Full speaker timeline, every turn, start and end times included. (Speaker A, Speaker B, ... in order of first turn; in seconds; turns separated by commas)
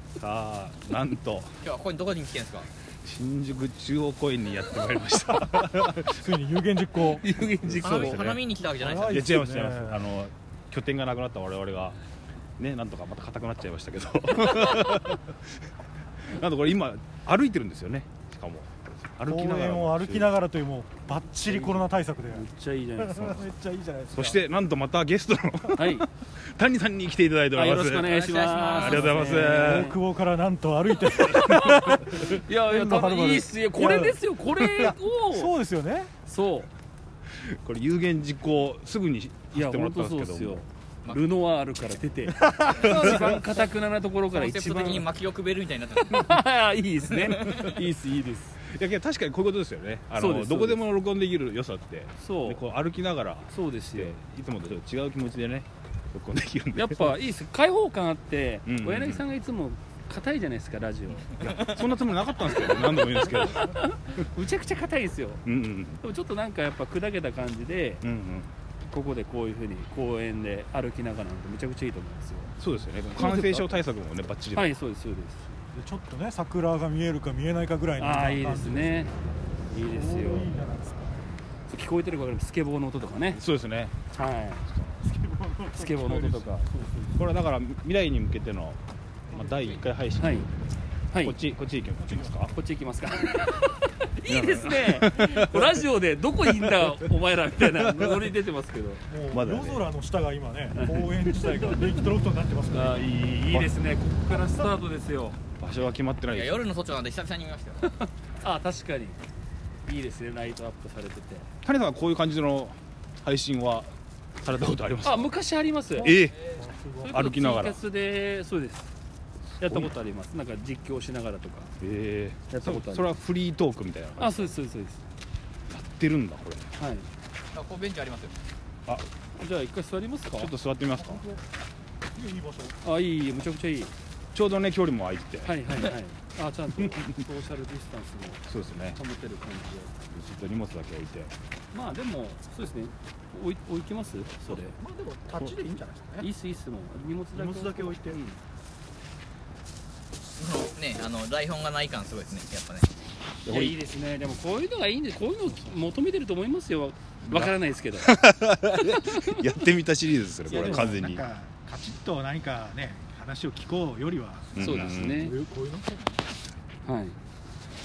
Speaker A: 0.2-1.5, Speaker B: 1.6-2.7, Speaker A: 3.0-6.2, Speaker C: 5.2-7.2, Speaker D: 7.1-8.2, Speaker A: 7.6-8.4, Speaker B: 7.8-9.3, Speaker C: 8.8-10.1, Speaker A: 9.1-12.0, Speaker A: 12.6-15.4, Speaker A: 16.3-20.3, Speaker C: 19.3-24.4, Speaker D: 21.5-23.4, Speaker A: 24.1-28.1, Speaker C: 25.7-25.9, Speaker D: 25.8-26.1, Speaker D: 27.5-30.0, Speaker B: 28.1-29.1, Speaker A: 28.7-29.9, Speaker C: 29.5-36.1, Speaker D: 31.1-35.5, Speaker D: 36.2-36.7, Speaker A: 37.6-40.7, Speaker D: 39.5-45.1, Speaker C: 42.4-42.8, Speaker A: 42.8-43.4, Speaker B: 42.8-43.3, Speaker B: 44.3-46.3, Speaker D: 46.0-48.6, Speaker B: 47.1-47.8, Speaker A: 48.7-57.2, Speaker D: 50.2-50.8, Speaker D: 52.2-52.6, Speaker D: 53.5-54.2, Speaker D: 56.8-61.5, Speaker A: 58.7-59.2, Speaker A: 61.4-63.7, Speaker D: 62.6-65.4, Speaker A: 65.5-66.0, Speaker D: 66.0-68.0, Speaker A: 68.0-68.5, Speaker D: 68.8-72.5, Speaker A: 72.6-74.7, Speaker D: 73.1-73.8, Speaker D: 74.5-75.6, Speaker C: 75.7-79.1, Speaker D: 78.0-79.1, Speaker D: 79.7-80.5, Speaker C: 79.8-81.3, Speaker D: 81.7-83.4, Speaker A: 83.3-84.0, Speaker D: 84.1-84.7, Speaker A: 84.7-85.0, Speaker C: 85.0-87.2, Speaker D: 85.7-86.7, Speaker A: 87.2-88.8, Speaker C: 89.3-89.7, Speaker A: 89.3-90.5, Speaker D: 90.2-90.5, Speaker A: 91.2-92.5, Speaker C: 92.1-92.3, Speaker D: 92.5-99.1, Speaker A: 94.3-95.7, Speaker A: 98.0-98.3, Speaker C: 99.1-103.2, Speaker A: 99.3-99.9, Speaker D: 100.7-101.9, Speaker D: 102.7-105.4, Speaker C: 104.3-104.7, Speaker A: 105.6-106.6, Speaker B: 106.3-107.9, Speaker D: 107.8-109.2, Speaker D: 109.9-111.5, Speaker A: 111.7-113.9, Speaker A: 114.4-115.3, Speaker D: 115.0-116.2, Speaker A: 116.0-116.5, Speaker C: 116.6-117.2, Speaker D: 117.0-118.9, Speaker A: 117.1-117.8, Speaker A: 119.6-119.9, Speaker D: 119.6-121.7, Speaker A: 121.8-124.6, Speaker D: 122.5-123.2, Speaker D: 124.2-125.0, Speaker A: 125.7-126.7, Speaker D: 126.8-127.1, Speaker B: 127.5-128.3, Speaker D: 129.4-130.5, Speaker A: 130.3-131.3, Speaker C: 131.1-131.4, Speaker C: 132.2-132.8, Speaker D: 132.8-133.9, Speaker A: 134.3-135.6, Speaker D: 135.4-139.9, Speaker A: 138.5-139.0, Speaker A: 140.1-141.3, Speaker D: 141.7-144.8, Speaker C: 144.4-146.3, Speaker D: 146.2-148.4, Speaker C: 147.3-148.2, Speaker B: 150.4-152.9, Speaker D: 153.5-158.2, Speaker A: 153.5-153.8, Speaker A: 157.2-161.2, Speaker D: 158.7-159.4, Speaker C: 160.4-166.2, Speaker D: 160.5-161.0, Speaker A: 164.6-165.3, Speaker D: 164.6-165.3, Speaker D: 166.8-167.2